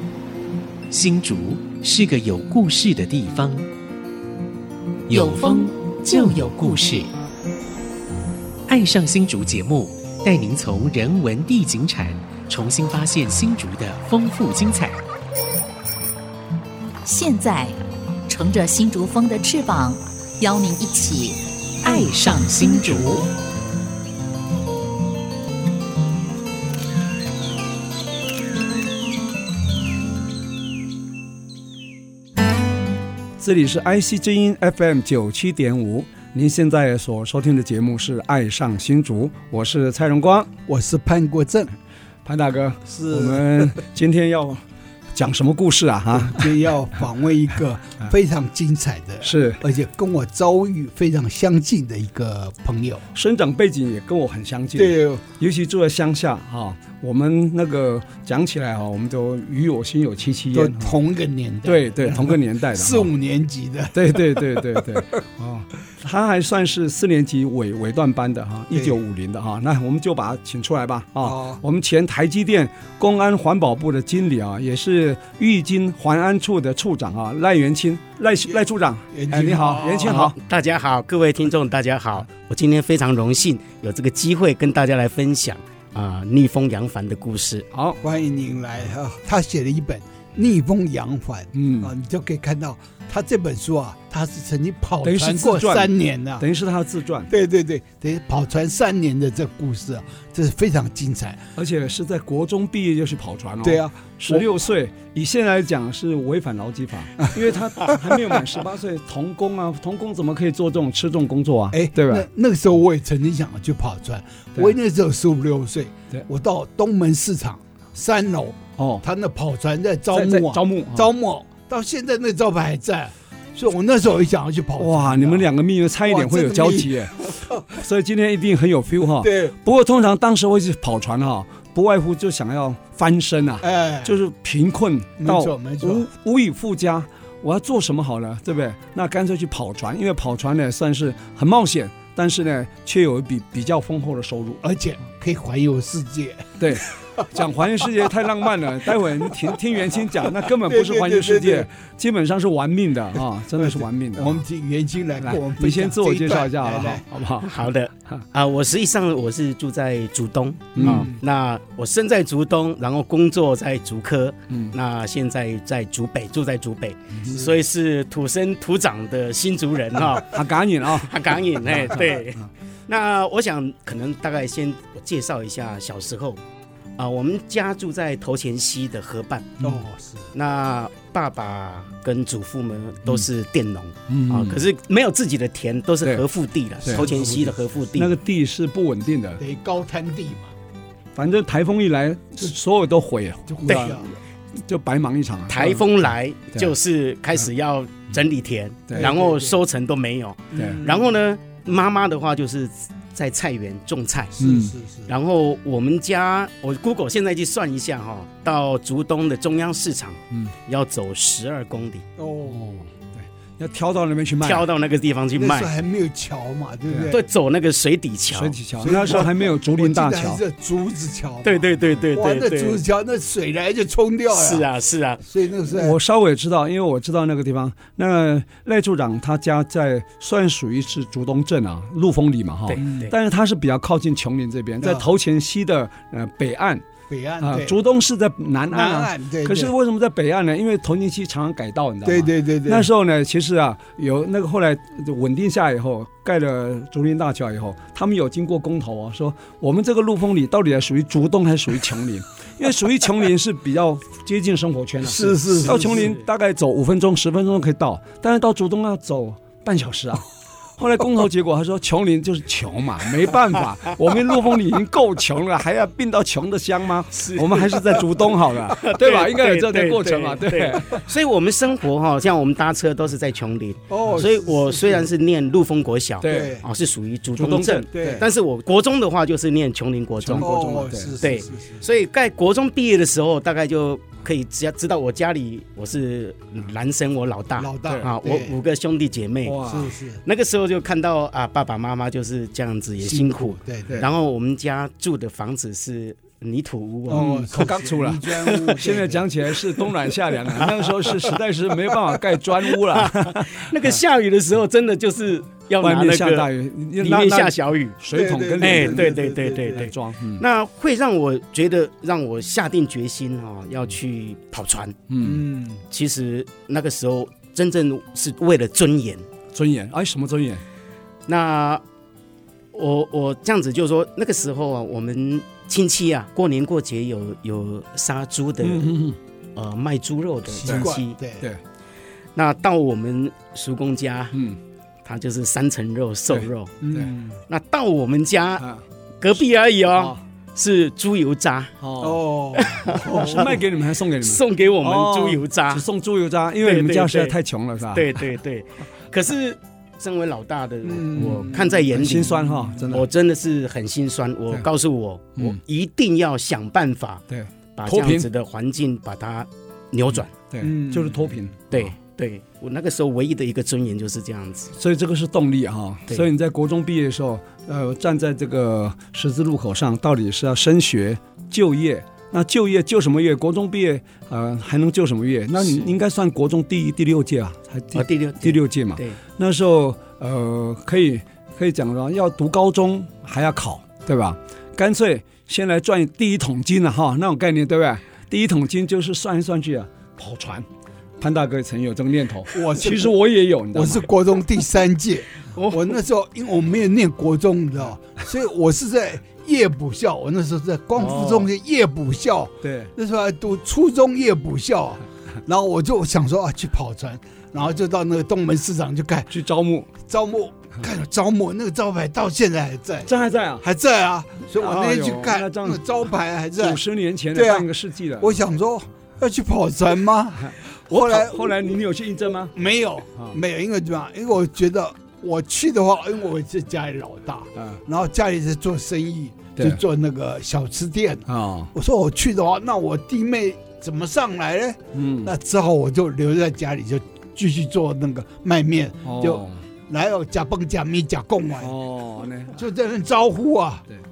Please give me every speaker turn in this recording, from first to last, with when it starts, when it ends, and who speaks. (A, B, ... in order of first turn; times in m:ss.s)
0:00.9-0:03.7 A
0:05.1-0:07.1 A
0:05.1-0:06.6 B
0:08.7-0:15.0 A
0:17.0-0:23.2 B
0:21.8-0:23.3 A
0:33.4-0:40.5 C
0:40.7-0:41.7 D
0:42.2-0:44.6 C
0:42.9-0:43.7 D
0:45.1-0:46.6 C
0:46.1-0:53.0 D
0:49.2-0:49.6 C
0:53.1-1:01.0 C
0:54.8-0:55.2 D
1:00.5-1:04.8 D
1:01.6-1:03.1 C
1:03.9-1:20.3 C
1:08.7-1:09.0 D
1:11.2-1:11.6 D
1:18.5-1:20.3 D
1:20.0-1:27.6 E
1:27.7-1:28.0 C
1:28.0-1:36.4 D
1:31.5-1:31.9 C
1:35.0-1:37.3 C
1:37.3-1:41.4 D
1:41.6-1:52.3 C
1:43.6-1:44.6 D
1:47.2-1:48.0 D
1:51.7-2:05.5 D
1:58.8-1:59.0 C
2:00.1-2:01.1 C
2:04.8-2:24.6 C
2:06.0-2:07.7 D
2:09.2-2:09.5 D
2:13.6-2:14.2 D
2:15.2-2:16.1 D
2:24.6-2:27.3 D
2:26.6-2:34.4 C
2:28.9-2:29.5 D
2:30.2-2:31.7 D
2:33.6-2:37.0 D
2:35.2-2:37.6 C
2:37.1-2:56.4 E
2:40.7-2:41.1 C
2:40.8-2:41.2 D
2:50.1-2:51.1 C
2:51.7-2:52.4 C
2:57.0-2:59.5 E
2:59.6-3:00.3 D
3:00.3-3:08.1 E
3:04.1-3:04.6 C
3:06.8-3:07.6 D
3:08.0-3:09.4 C
3:09.4-3:10.5 D
3:11.1-3:14.1 C
3:13.5-3:14.1 D
3:13.7-3:14.0 E
3:14.7-3:16.7 C
3:15.5-3:24.4 E
3:19.0-3:19.6 D
3:20.5-3:21.1 D
3:20.6-3:20.8 C
3:24.4-3:24.7 C
3:24.4-3:25.1 D
3:25.1-3:32.0 E
3:32.2-3:32.6 D
3:32.4-3:34.7 C
3:34.4-3:35.7 E
3:35.4-3:37.2 D
3:36.9-3:37.1 C
3:37.1-3:38.6 E
3:38.3-3:40.4 C
3:38.8-3:44.7 D
3:41.4-3:42.8 E
3:44.3-3:45.2 E
3:45.2-3:46.0 D
3:45.7-3:56.8 C
3:52.7-3:53.1 E
3:54.8-3:55.1 D
3:57.1-3:57.8 D
3:57.4-4:20.2 C
3:58.7-3:59.7 D
4:02.0-4:02.9 D
4:15.0-4:16.2 D
4:15.5-4:16.2 E
4:20.8-4:31.0 C
4:27.1-4:40.7 E
4:33.9-4:35.1 D
4:36.2-4:36.6 C
4:36.2-4:36.6 D
4:37.4-4:38.2 C
4:37.9-4:38.2 D
4:40.2-4:41.2 C
4:40.4-4:41.8 D
4:41.2-4:49.6 E
4:47.6-4:48.6 D
4:49.4-4:49.9 C
4:49.6-4:50.2 D
4:50.2-4:57.4 E
4:53.0-4:54.1 D
4:57.1-5:04.0 C
4:57.1-4:59.3 D
4:58.4-4:58.8 E
5:00.4-5:08.0 E
5:05.8-5:09.1 C
5:08.1-5:09.8 D
5:08.6-5:15.0 E
5:09.7-5:10.4 C
5:15.1-5:15.4 C
5:15.2-5:15.8 D
5:15.9-5:19.2 E
5:19.5-5:20.6 C
5:21.3-5:21.8 E
5:22.7-5:28.9 E
5:28.6-5:29.2 C
5:29.6-5:31.2 E
5:30.5-5:31.5 D
5:30.6-5:30.9 C
5:32.4-5:34.4 E
5:35.0-5:36.7 E
5:36.3-5:37.1 C
5:36.8-5:37.4 D
5:37.5-5:38.6 E
5:39.2-5:41.7 E
5:39.9-5:40.2 C
5:41.8-5:42.2 C
5:42.0-5:43.6 D
5:42.5-5:43.6 E
5:42.8-5:48.2 C
5:44.2-5:45.8 E
5:46.6-5:47.4 E
5:47.9-5:57.2 E
5:50.8-5:51.8 D
5:51.2-5:53.1 C
5:52.4-5:52.7 D
5:57.3-5:58.2 C
5:57.8-6:00.3 E
6:00.5-6:01.9 C
6:00.6-6:01.3 D
6:01.7-6:04.7 E
6:04.8-6:30.6 C
6:17.9-6:19.2 E
6:31.2-6:34.1 C
6:32.5-6:33.1 D
6:33.7-6:49.3 D
6:35.5-6:36.0 E
6:41.0-6:41.5 E
6:42.6-6:42.9 C
6:49.3-6:49.9 C
6:50.0-6:56.8 D
6:53.0-6:53.6 C
6:54.5-6:55.8 C
6:56.5-6:58.4 C
6:57.3-6:57.7 D
6:58.2-7:01.6 D
7:00.4-7:02.5 C
7:02.5-7:21.8 D
7:07.6-7:07.8 C
7:11.3-7:11.7 C
7:14.9-7:15.3 C
7:19.0-7:19.6 C
7:21.6-7:22.5 C
7:22.5-7:23.8 D